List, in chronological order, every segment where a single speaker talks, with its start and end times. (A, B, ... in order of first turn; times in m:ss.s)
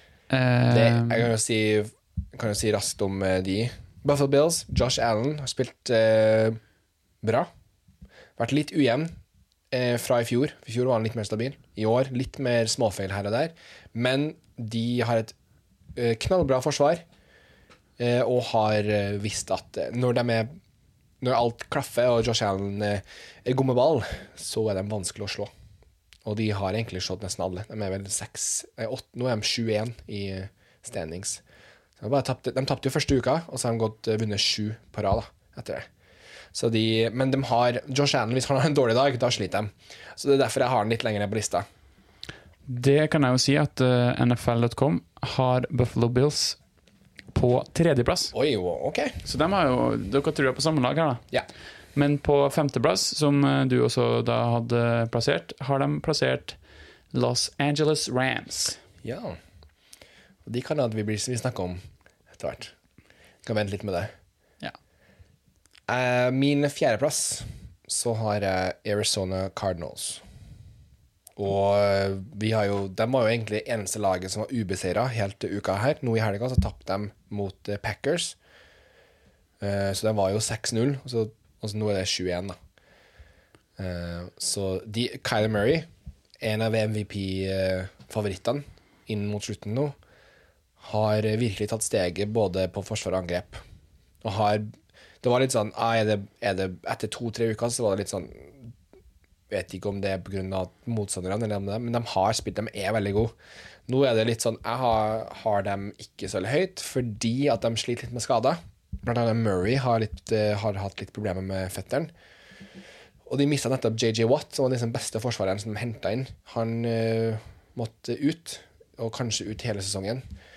0:00.3-0:01.3 A
0:00.7-0:06.6 B
0:07.2-0:07.5 B
0:08.4-0:09.2 B
0:09.7-0:15.3 B
0:16.0-0:17.0 B
0:18.0-0:20.6 B
0:21.2-0:25.5 B
0:26.2-0:31.4 B
0:32.0-0:35.9 B
0:36.5-0:41.6 B
0:42.7-0:46.6 A
0:47.3-0:48.3 A
0:48.3-0:49.2 B
0:49.2-0:51.2 A
0:51.9-0:56.6 A
0:57.1-0:58.8 A
0:59.0-0:59.4 B
1:00.4-1:02.7 B
1:03.4-1:04.1 B
1:05.9-1:10.2 B
1:11.4-1:18.4 B
1:19.6-1:22.6 B
1:23.8-1:25.9 B
1:26.4-1:30.0 B
1:30.8-1:33.6 B
1:34.2-1:34.7 B
1:35.2-1:38.7 B
1:39.5-1:43.3 B
1:43.9-1:52.1 B
1:53.3-2:00.2 B